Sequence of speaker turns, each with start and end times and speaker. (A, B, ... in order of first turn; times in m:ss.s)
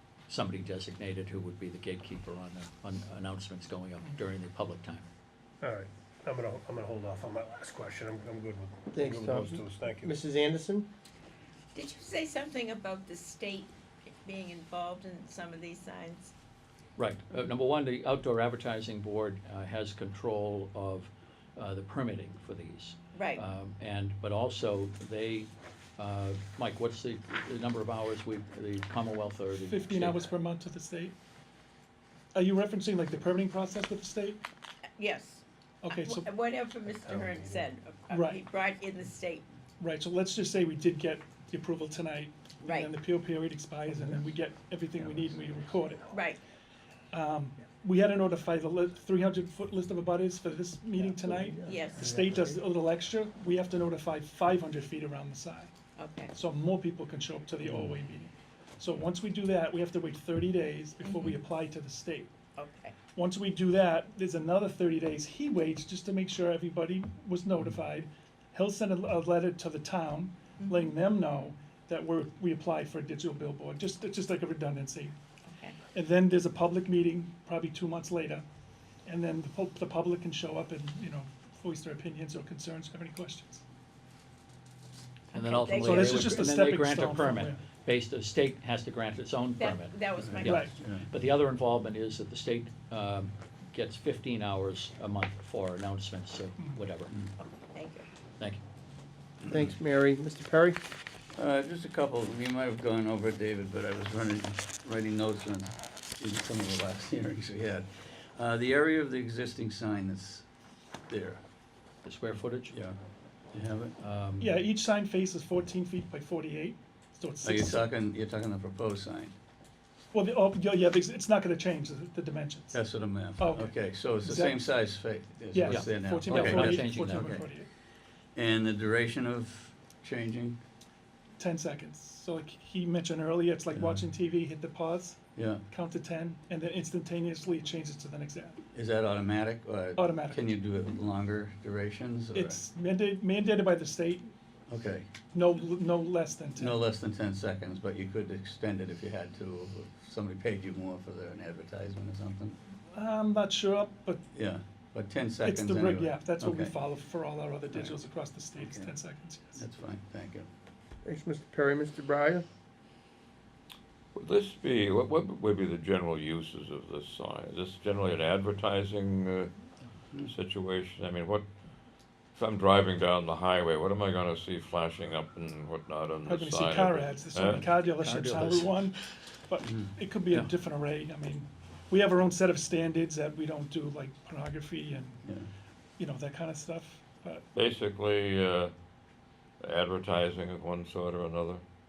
0:00.3-0:05.1 A
0:05.6-0:10.2 B
0:08.9-0:10.9 C
0:11.7-0:16.3 D
0:17.0-0:30.3 A
0:23.1-0:23.4 D
0:29.6-0:31.1 E
0:32.3-0:34.4 E
0:35.0-0:39.5 D
0:35.8-0:36.3 E
0:36.9-0:37.7 B
0:38.1-0:38.4 E
0:39.8-0:46.1 E
0:42.6-0:42.9 D
0:45.0-0:46.2 B
0:46.1-0:46.4 D
0:47.1-0:55.7 E
0:51.3-0:52.4 B
0:51.6-0:52.0 D
0:56.0-0:56.3 D
0:56.3-1:02.3 E
1:01.0-1:01.3 D
1:02.6-1:03.0 D
1:03.1-1:15.1 E
1:10.6-1:10.9 D
1:15.4-1:15.8 D
1:15.9-1:18.4 E
1:19.0-1:23.6 E
1:25.3-1:37.2 A
1:25.3-1:26.1 D
1:25.8-1:27.6 E
1:29.6-1:30.7 D
1:30.2-1:31.0 F
1:30.4-1:30.7 E
1:37.7-1:38.1 D
1:39.4-1:39.8 F
1:39.5-1:40.8 C
1:41.4-1:50.4 F
1:51.1-1:51.4 F
1:52.0-1:52.7 A
1:52.7-1:53.0 F
1:53.5-1:54.0 F
1:54.0-1:54.6 A
1:54.4-1:57.8 E
1:57.4-1:59.3 F
2:00.1-2:02.8 E
2:02.7-2:07.4 F
2:03.4-2:04.7 E
2:05.5-2:07.7 E
2:05.6-2:07.4 A
2:08.3-2:10.6 F
2:11.4-2:15.2 E
2:13.7-2:14.0 F
2:15.4-2:15.6 F
2:15.7-2:18.6 E
2:18.7-2:22.6 F
2:20.0-2:20.6 E
2:22.3-2:24.3 E
2:24.7-2:25.1 F
2:25.3-2:26.8 E
2:26.6-2:32.6 F
2:32.9-2:34.2 E
2:34.3-2:36.8 F
2:35.4-2:39.6 E
2:38.6-2:38.9 F
2:39.6-2:40.5 F
2:41.0-2:42.4 C
2:44.1-2:49.5 G
2:50.2-2:51.4 G
2:52.3-2:57.7 G
2:56.2-3:05.2 E
2:58.0-2:58.7 A
2:59.6-2:59.9 F
3:06.0-3:07.4 E
3:07.5-3:08.7 G
3:09.6-3:11.6 G